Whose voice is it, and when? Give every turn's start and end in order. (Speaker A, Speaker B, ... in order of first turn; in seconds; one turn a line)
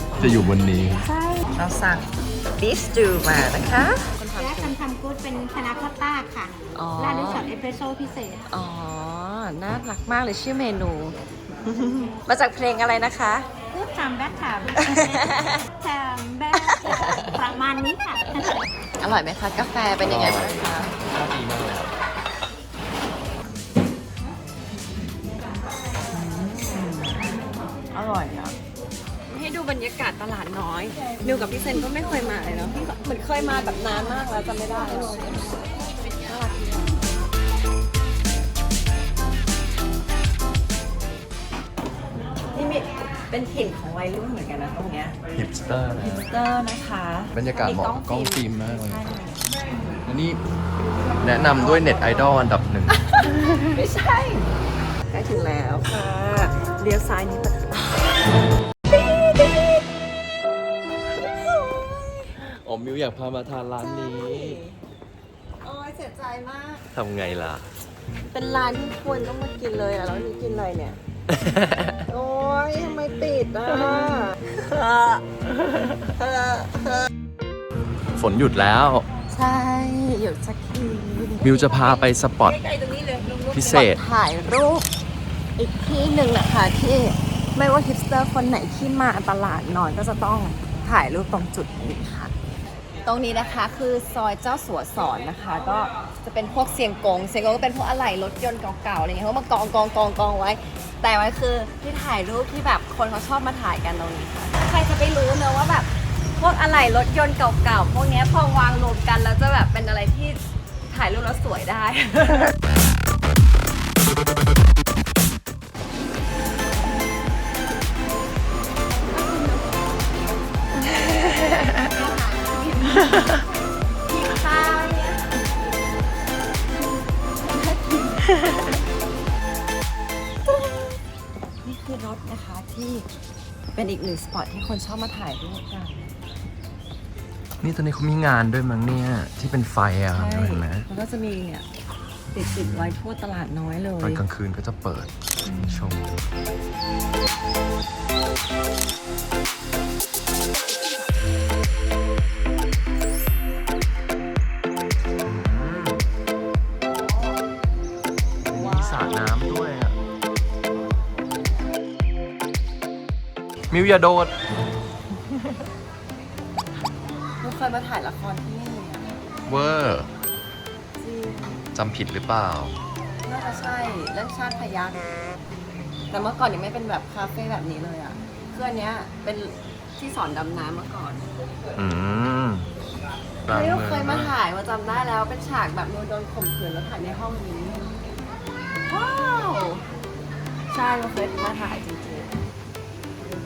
Speaker A: 0.2-1.1
Speaker B: 1.0-4.8
Speaker C: 4.3-8.5
Speaker B: 6.7-7.5
Speaker B: 8.5-13.5
Speaker C: 13.7-18.5
Speaker B: 14.8-15.6
Speaker B: 16.5-17.2
Speaker B: 19.0-20.9
Speaker A: 20.0-21.9
Speaker B: 26.1-27.4
Speaker B: 27.9-28.6
Speaker B: 29.3-36.9
Speaker B: 42.5-45.2
Speaker A: 45.3-46.3
Speaker B: 46.0-49.4
Speaker A: 47.3-49.0
Speaker A: 50.0-50.4
Speaker A: 51.2-53.0
Speaker B: 51.5-52.1
Speaker B: 53.1-54.5
Speaker B: 55.1-58.1
Speaker B: 58.9-59.7
Speaker B: 61.2-62.4
Speaker A: 62.4-64.6
Speaker B: 63.8-64.8
Speaker B: 65.6-66.8
Speaker A: 66.9-67.7
Speaker B: 68.3-71.0
Speaker A: 71.3-72.0
Speaker B: 72.1-75.2
Speaker B: 76.2-77.0
Speaker A: 78.1-79.1
Speaker B: 79.3-82.0
Speaker A: 81.4-82.6
Speaker B: 82.7-84.8
Speaker C: 82.8-83.2
Speaker A: 83.5-84.0
Speaker B: 85.6-92.3
Speaker B: 93.0-112.5
Speaker C: 119.1-119.6
Speaker B: 121.9-123.2
Speaker C: 122.5-123.1
Speaker B: 124.1-125.2
Speaker B: 127.5-128.3
Speaker B: 130.5-131.0
Speaker B: 131.6-133.1
Speaker B: 133.7-136.1
Speaker A: 137.6-140.8
Speaker B: 140.1-141.7
Speaker B: 142.3-144.2
Speaker A: 142.4-143.0
Speaker A: 144.0-145.1
Speaker B: 145.4-145.9
Speaker A: 145.7-146.2
Speaker A: 155.3-156.1
Speaker A: 158.4-160.0
Speaker B: 158.5-159.3
Speaker A: 163.7-164.3
Speaker B: 167.4-169.2
Speaker A: 169.5-170.1
Speaker B: 171.0-171.6
Speaker A: 171.7-172.7
Speaker B: 173.2-175.1
Speaker B: 176.1-181.2
Speaker A: 181.8-182.7
Speaker A: 183.4-184.3
Speaker B: 183.5-187.9
Speaker B: 188.9-189.8
Speaker B: 190.7-192.3